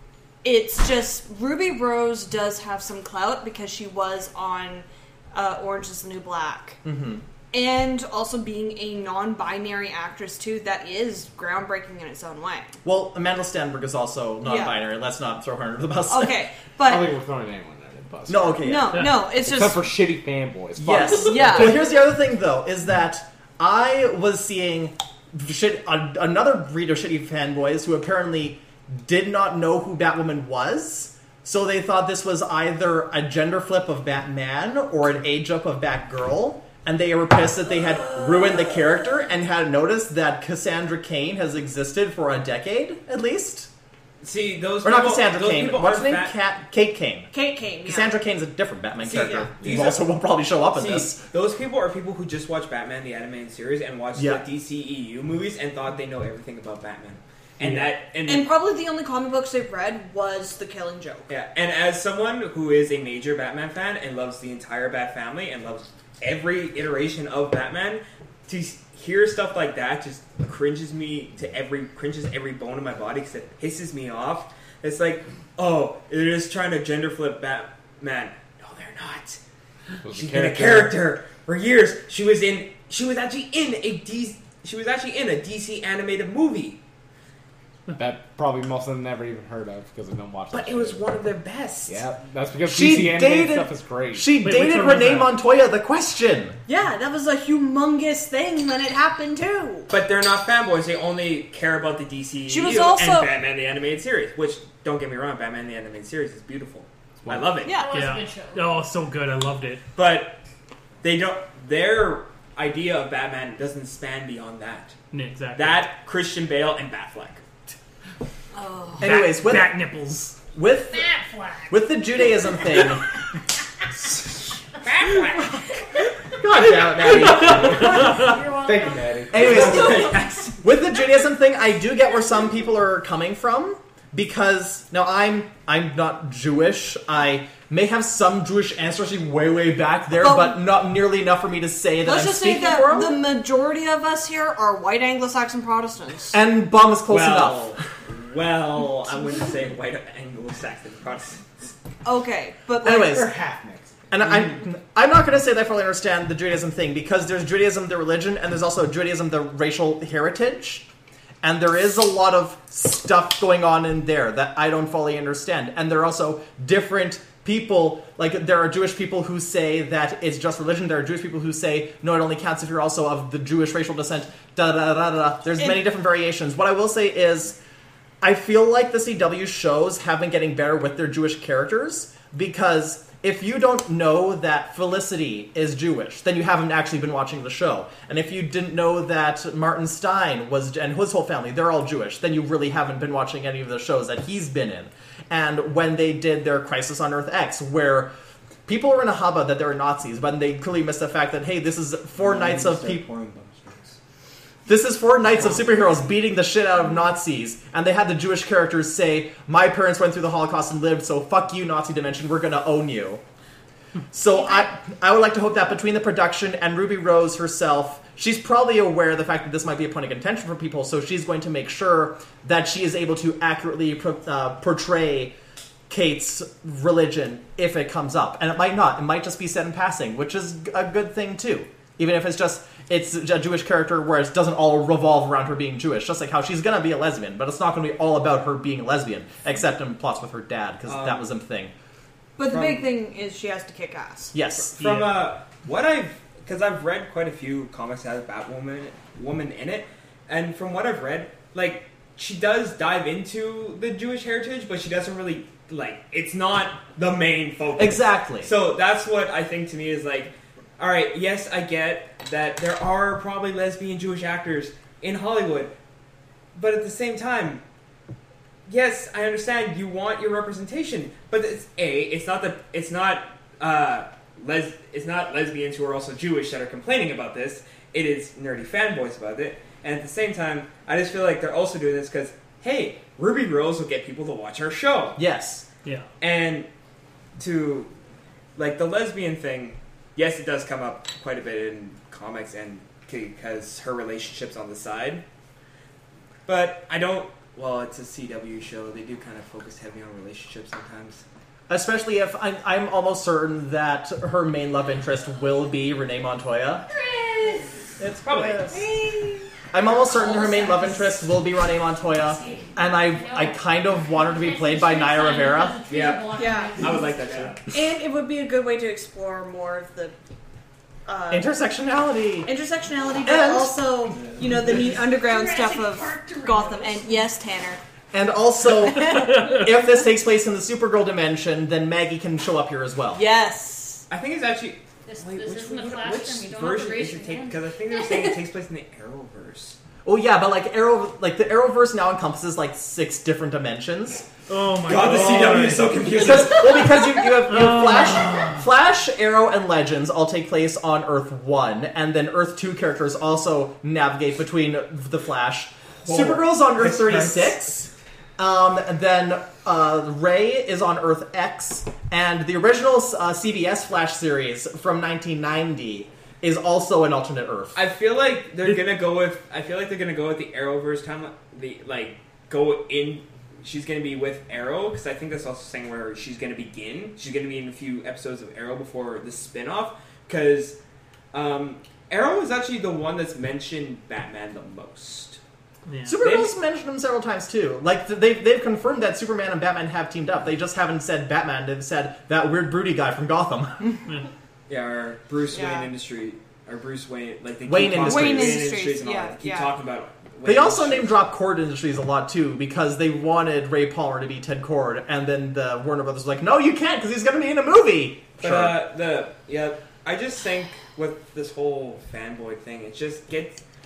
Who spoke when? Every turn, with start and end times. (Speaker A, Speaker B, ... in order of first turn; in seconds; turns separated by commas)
Speaker A: 0.4-6.8, Speaker B: 6.8-7.2, Speaker A: 7.5-12.7, Speaker B: 12.8-16.4, Speaker A: 14.4-14.8, Speaker A: 16.1-17.1, Speaker C: 16.9-21.6, Speaker B: 18.3-19.1, Speaker A: 18.6-19.9, Speaker B: 20.8-43.7, Speaker A: 21.1-21.9, Speaker D: 44.2-46.4, Speaker B: 44.8-47.3, Speaker A: 47.3-48.2, Speaker B: 47.8-51.2, Speaker D: 49.0-58.5, Speaker B: 54.1-54.4, Speaker A: 58.2-61.3, Speaker D: 61.3-79.4, Speaker C: 80.0-81.0, Speaker D: 80.1-86.8, Speaker C: 87.9-91.1, Speaker D: 90.5-92.0, Speaker C: 91.9-94.3, Speaker B: 92.6-96.6, Speaker E: 94.4-95.3, Speaker A: 96.7-99.9, Speaker D: 99.9-107.8, Speaker A: 102.5-103.3, Speaker C: 107.2-107.7, Speaker A: 107.7-107.9, Speaker F: 107.7-108.7, Speaker E: 107.9-109.8, Speaker D: 109.9-110.4, Speaker D: 111.0-114.9, Speaker E: 115.1-115.9, Speaker D: 115.5-117.4, Speaker A: 118.5-119.1, Speaker B: 119.0-119.9, Speaker E: 119.0-120.3, Speaker B: 120.5-121.1, Speaker F: 120.9-121.8, Speaker B: 121.7-123.1, Speaker D: 124.8-125.5, Speaker B: 126.4-127.5, Speaker C: 127.0-130.1, Speaker E: 127.0-128.3, Speaker F: 127.7-129.3, Speaker B: 129.3-143.2, Speaker D: 129.4-130.6, Speaker A: 140.1-140.6, Speaker A: 142.0-146.4, Speaker B: 146.3-147.8, Speaker D: 147.1-151.7, Speaker A: 152.0-153.3, Speaker B: 152.8-153.3, Speaker C: 153.1-154.0, Speaker B: 154.1-160.8, Speaker B: 161.4-177.6, Speaker B: 178.2-198.1, Speaker B: 198.7-203.0, Speaker C: 202.3-202.9, Speaker B: 204.7-213.2, Speaker B: 214.1-225.3, Speaker B: 225.9-241.7, Speaker D: 240.8-241.2, Speaker A: 242.4-244.3, Speaker D: 242.4-242.9, Speaker B: 244.3-244.8, Speaker D: 244.7-265.7, Speaker E: 244.8-245.3, Speaker B: 257.8-258.5, Speaker D: 266.5-267.6, Speaker D: 268.7-285.2, Speaker B: 285.1-285.6, Speaker D: 286.2-286.7, Speaker D: 287.4-287.9, Speaker D: 288.6-295.2, Speaker D: 296.4-301.2, Speaker B: 301.7-306.9, Speaker F: 306.9-307.8, Speaker B: 308.0-308.8, Speaker D: 308.2-308.7, Speaker A: 308.7-309.4, Speaker B: 309.7-315.8, Speaker F: 310.0-311.3, Speaker F: 312.1-317.5, Speaker D: 315.9-317.7, Speaker A: 316.3-316.9, Speaker A: 317.7-320.1, Speaker A: 321.1-321.5, Speaker B: 321.3-322.5, Speaker A: 322.4-327.8, Speaker B: 323.2-323.8, Speaker F: 324.6-327.3, Speaker B: 328.1-333.2, Speaker A: 328.8-329.6, Speaker A: 333.1-334.0, Speaker D: 334.1-339.8, Speaker F: 335.0-338.4, Speaker B: 340.0-344.2, Speaker E: 344.5-345.9, Speaker D: 344.8-347.0, Speaker B: 346.1-367.8, Speaker E: 347.5-348.5, Speaker D: 356.0-357.7, Speaker D: 367.7-380.8, Speaker D: 381.3-385.4, Speaker E: 385.9-386.2, Speaker B: 386.0-393.9, Speaker D: 386.2-386.6, Speaker D: 394.7-401.2, Speaker A: 395.5-395.9, Speaker B: 397.6-398.7, Speaker A: 398.0-399.7, Speaker B: 400.4-408.8, Speaker D: 408.4-413.6